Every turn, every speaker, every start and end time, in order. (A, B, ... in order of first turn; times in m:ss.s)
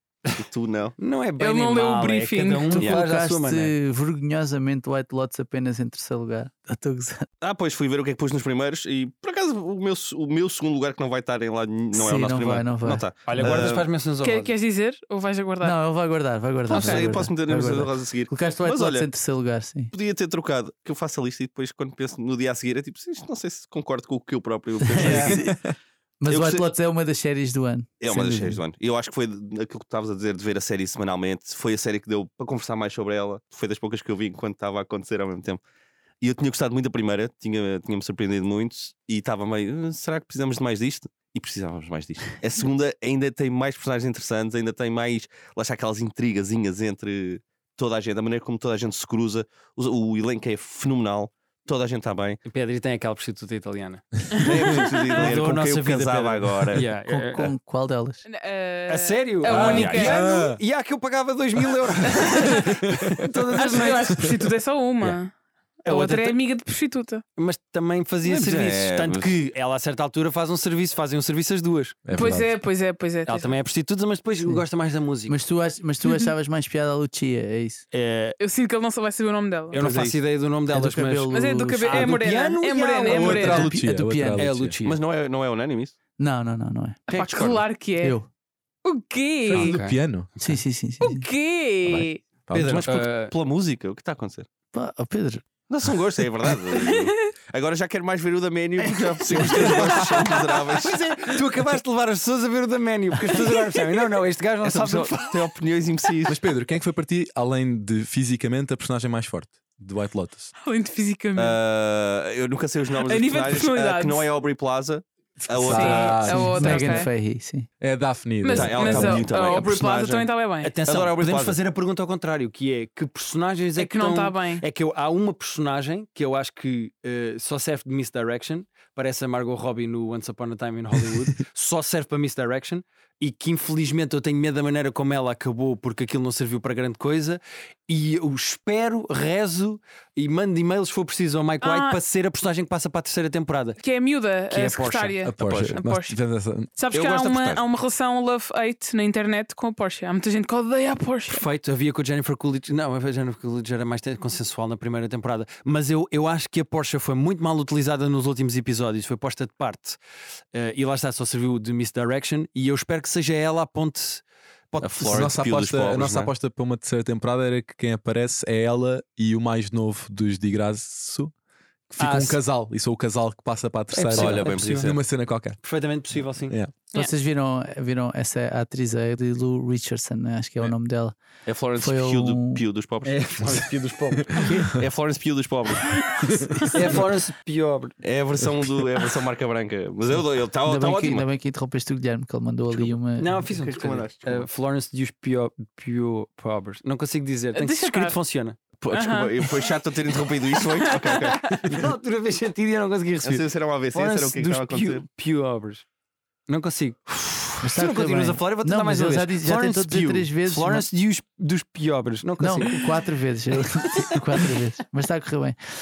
0:00.3-0:01.0 A
0:01.0-0:03.8 B
0:01.4-0:02.9 C
0:02.8-0:07.3 D
0:07.4-0:13.9 A
0:11.9-0:13.5 D
0:13.3-0:14.5 B
0:14.2-0:15.8 C
0:15.6-0:19.9 D
0:16.7-0:19.1 A
0:16.8-0:17.0 C
0:19.9-0:25.5 A
0:24.8-0:25.6 D
0:25.0-0:25.3 B
0:26.2-0:28.6 D
0:26.3-0:26.7 A
0:28.0-0:35.6 A
0:36.2-0:52.4 A
0:52.5-0:54.4 B
0:54.3-0:54.9 C
0:54.4-0:56.9 A
0:55.1-0:57.5 B
0:57.0-0:58.2 D
0:58.3-1:00.3 C
0:58.9-1:04.3 B
0:59.5-1:00.6 E
0:59.6-1:00.1 A
1:02.1-1:02.6 C
1:03.6-1:05.3 C
1:05.8-1:06.4 B
1:05.9-1:07.2 C
1:07.4-1:12.0 B
1:08.2-1:09.4 A
1:12.0-1:12.6 E
1:12.2-1:13.6 C
1:13.3-1:15.4 B
1:15.3-1:17.8 D
1:16.0-1:16.3 C
1:17.9-1:18.4 B
1:18.4-1:19.8 C
1:19.7-1:23.7 B
1:19.8-1:20.2 A
1:20.7-1:22.2 D
1:21.3-1:23.7 C
1:23.1-1:24.8 E
1:23.4-1:24.5 D
1:24.4-1:25.0 B
1:24.8-1:26.0 A
1:26.2-1:27.2 D
1:27.1-1:28.2 C
1:27.1-1:27.6 A
1:28.0-1:28.3 D
1:28.8-1:29.8 C
1:29.5-1:30.5 B
1:29.5-1:30.4 E
1:30.4-1:31.3 D
1:31.0-1:32.2 C
1:31.9-1:33.0 E
1:32.5-1:34.5 A
1:32.6-1:33.4 B
1:34.7-1:35.4 D
1:35.7-1:41.0 A
1:36.7-1:37.1 C
1:38.9-1:45.5 B
1:39.4-1:39.9 E
1:44.6-1:46.4 A
1:46.3-1:50.5 E
1:50.6-1:51.6 C
1:51.4-1:56.5 A
1:53.0-1:54.3 C
1:55.5-1:57.1 E
1:55.7-1:57.1 C
1:56.4-1:57.7 D
1:57.8-1:59.3 E
1:58.4-2:00.7 C
1:58.5-2:00.3 A
2:00.6-2:23.8 B
2:00.8-2:01.6 A
2:03.8-2:04.6 C
2:21.6-2:22.0 C
2:23.8-2:26.2 C
2:24.5-2:25.6 B
2:25.2-2:26.7 E
2:26.8-2:31.4 C
2:26.9-2:27.6 A
2:31.3-2:40.0 B
2:40.5-2:45.2 B
2:44.8-2:46.3 A
2:45.0-2:51.3 E
2:51.9-2:55.6 E
2:52.0-2:52.4 B
2:53.9-2:55.0 B
2:54.1-2:55.0 A
2:55.6-2:56.6 B
2:56.5-2:56.7 E
2:56.9-3:01.2 D
3:01.5-3:03.3 A
3:01.8-3:02.6 D
3:03.0-3:04.7 B
3:04.7-3:06.2 A
3:06.2-3:06.7 E
3:06.7-3:08.0 B
3:08.0-3:11.3 A
3:10.6-3:13.4 D
3:12.7-3:14.5 A
3:13.2-3:18.6 B
3:17.6-3:18.2 C
3:18.8-3:21.8 A
3:18.9-3:19.7 C
3:20.6-3:21.6 C
3:21.6-3:25.8 B
3:23.2-3:25.0 A
3:26.5-3:32.9 B
3:27.6-3:30.9 D
3:32.4-3:35.6 D